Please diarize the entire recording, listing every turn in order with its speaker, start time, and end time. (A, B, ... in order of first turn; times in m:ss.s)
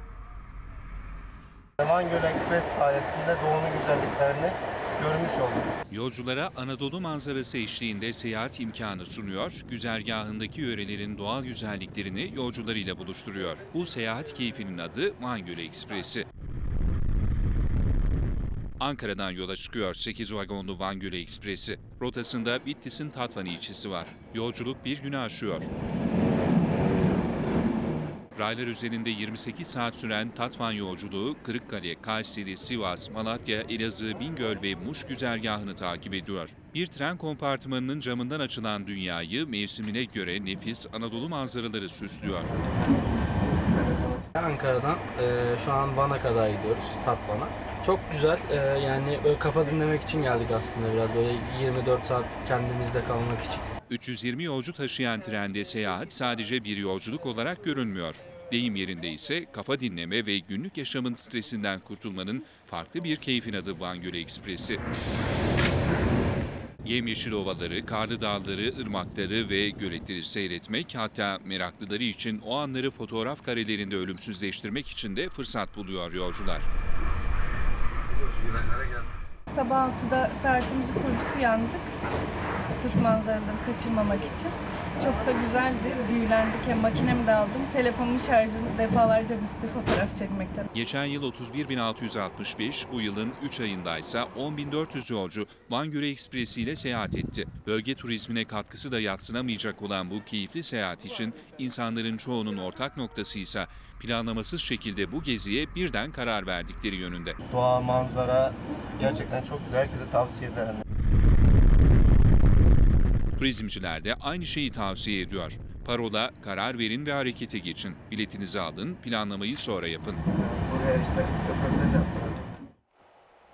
0:01.8-0:05.7 A
0:05.9-0:16.2 B
0:18.8-0:25.7 B
0:28.3-0:42.5 B
0:44.3-0:53.6 C
0:53.9-1:04.8 B
1:06.8-1:16.7 B
1:18.2-1:19.0 A
1:19.5-1:21.9 D
1:22.7-1:30.7 D
1:30.7-1:47.4 B
1:47.5-1:50.8 A
1:53.4-2:00.2 B
2:00.3-2:02.4 A